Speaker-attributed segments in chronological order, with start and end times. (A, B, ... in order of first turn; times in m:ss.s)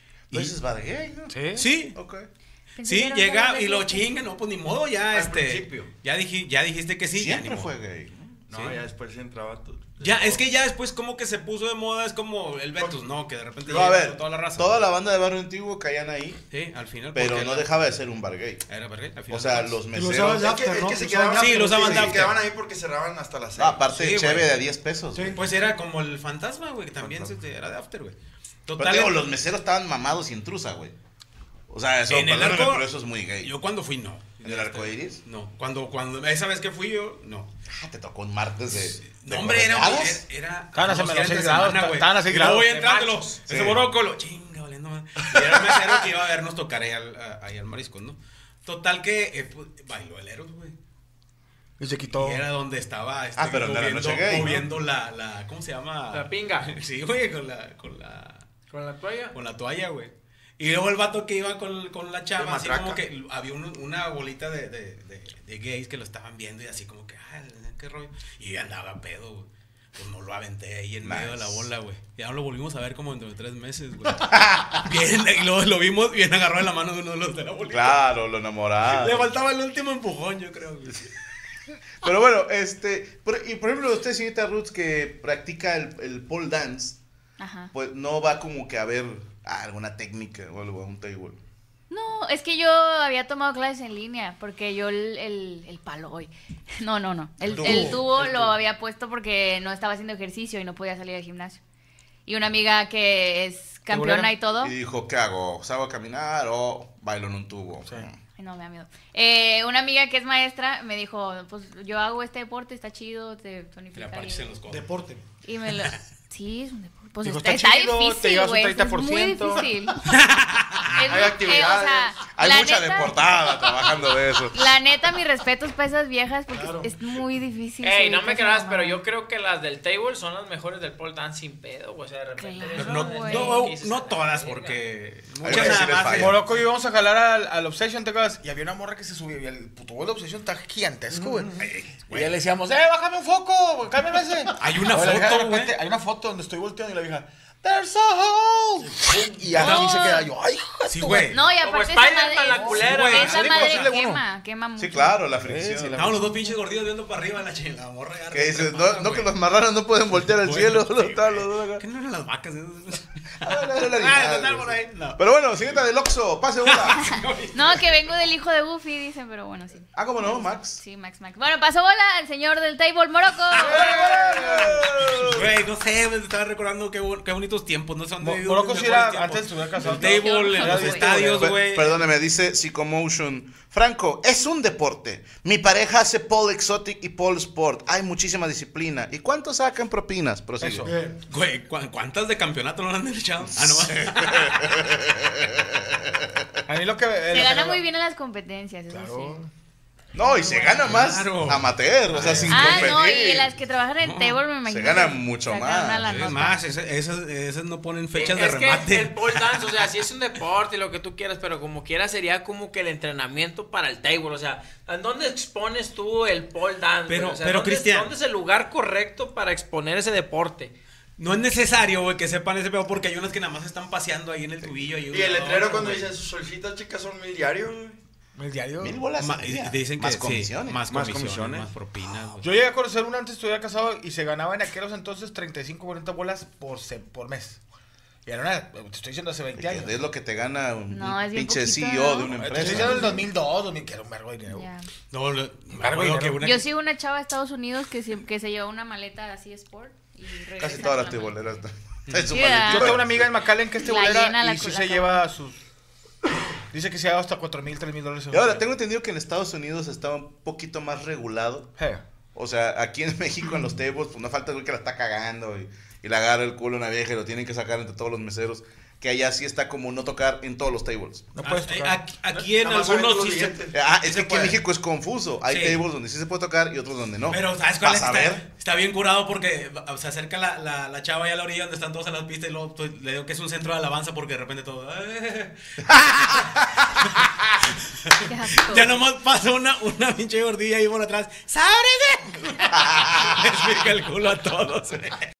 0:00.3-0:01.4 A
0:01.3-0:01.7 B
0:01.5-0:02.0 C
0:01.9-0:02.3 A
0:02.8-0:04.1 D
0:02.8-0:07.7 C
0:05.1-0:05.9 E
0:07.1-0:08.4 A
0:08.5-0:10.4 E
0:08.5-0:08.8 C
0:10.0-0:14.8 C
0:13.6-0:16.4 A
0:13.7-0:13.9 E
0:16.5-0:17.8 C
0:17.1-0:18.6 A
0:18.7-0:19.8 C
0:19.3-0:20.5 A
0:19.9-0:22.3 F
0:20.3-0:23.9 E
0:21.3-0:22.3 C
0:23.6-0:25.4 A
0:24.0-0:24.5 C
0:25.1-0:25.4 F
0:25.3-0:28.1 C
0:27.0-0:27.4 E
0:28.6-0:29.2 C
0:28.8-0:30.9 A
0:31.7-0:33.5 A
0:32.1-0:32.9 C
0:33.4-0:37.5 C
0:34.4-0:35.2 A
0:37.7-0:40.2 A
0:39.0-0:50.7 C
0:40.7-0:43.8 B
0:43.5-0:43.8 A
0:51.8-0:52.4 B
0:52.0-0:58.4 C
0:53.4-0:54.6 A
0:56.1-0:56.7 G
0:58.7-0:59.3 G
0:59.3-1:18.0 C
1:02.4-1:03.0 E
1:11.0-1:11.7 A
1:14.3-1:14.9 A
1:17.7-1:19.3 A
1:18.8-1:21.1 C
1:22.0-1:27.0 A
1:27.4-1:27.7 D
1:27.7-1:31.4 A
1:31.9-1:41.6 D
1:37.5-1:38.5 B
1:37.6-1:38.0 F
1:42.2-1:44.7 D
1:43.9-1:44.4 B
1:44.6-1:48.2 A
1:48.4-1:54.5 D
1:53.9-1:54.9 C
1:54.7-1:55.2 F
1:55.4-2:00.0 D
1:55.7-1:56.0 C
1:57.2-1:59.9 B
2:00.0-2:01.1 C
2:00.9-2:03.8 D
2:01.0-2:02.2 E
2:02.2-2:04.6 A
2:04.5-2:09.0 D
2:06.5-2:06.9 F
2:07.8-2:14.8 G
2:12.4-2:13.7 D
2:12.7-2:16.5 C
2:15.4-2:16.4 A
2:15.4-2:31.4 B
2:21.1-2:22.4 C
2:24.6-2:25.7 C
2:29.5-2:30.2 C
2:30.9-2:31.4 C
2:31.3-2:35.3 D
2:31.6-2:33.6 G
2:32.5-2:34.2 B
2:32.7-2:33.9 C
2:34.8-2:36.1 A
2:35.3-2:36.5 B
2:35.9-2:39.3 C
2:38.3-2:41.8 A
2:40.2-2:45.2 C
2:43.4-2:47.1 A
2:46.6-2:48.3 C
2:47.0-2:53.8 D
2:49.9-2:50.8 A
2:53.5-3:02.0 C
2:53.6-2:55.5 A
2:53.7-2:54.8 B
2:58.2-3:01.6 B
3:00.0-3:01.2 D
3:01.4-3:10.9 A
3:10.6-3:10.9 B
3:10.8-3:11.2 F
3:11.3-3:14.8 C
3:13.5-3:16.4 A
3:16.7-3:17.8 B
3:17.3-3:19.4 D
3:18.9-3:19.5 B
3:20.1-3:23.5 A
3:20.3-3:20.8 D
3:20.6-3:23.0 C
3:22.2-3:22.9 B
3:22.5-3:26.6 D
3:24.0-3:24.4 C
3:24.6-3:26.3 A
3:26.0-3:29.9 C
3:28.2-3:40.7 G
3:37.1-3:38.1 C
3:41.2-3:46.1 C
3:45.1-3:48.0 E
3:48.4-3:49.0 B
3:48.8-3:50.8 A
3:49.2-3:52.5 C
3:50.9-3:51.7 E
3:52.4-3:57.6 B
3:58.2-4:00.0 B
3:59.5-4:03.2 A
4:00.9-4:03.2 D
4:02.3-4:04.7 B
4:04.5-4:04.9 D
4:05.1-4:06.6 C
4:05.7-4:06.6 B
4:06.4-4:11.4 D
4:10.6-4:13.3 A
4:12.3-4:13.0 D
4:12.6-4:15.6 B
4:13.8-4:15.2 D
4:16.7-4:18.6 B
4:18.3-4:21.7 A
4:21.8-4:22.0 B
4:22.3-4:31.3 A
4:31.3-4:32.0 B
4:31.4-4:33.6 C
4:32.6-4:34.2 E
4:33.7-4:38.4 A
4:34.1-4:34.5 C
4:35.5-4:35.8 C
4:37.3-4:47.2 C
4:48.1-4:55.3 C
4:48.2-4:49.0 D
4:52.8-4:53.3 A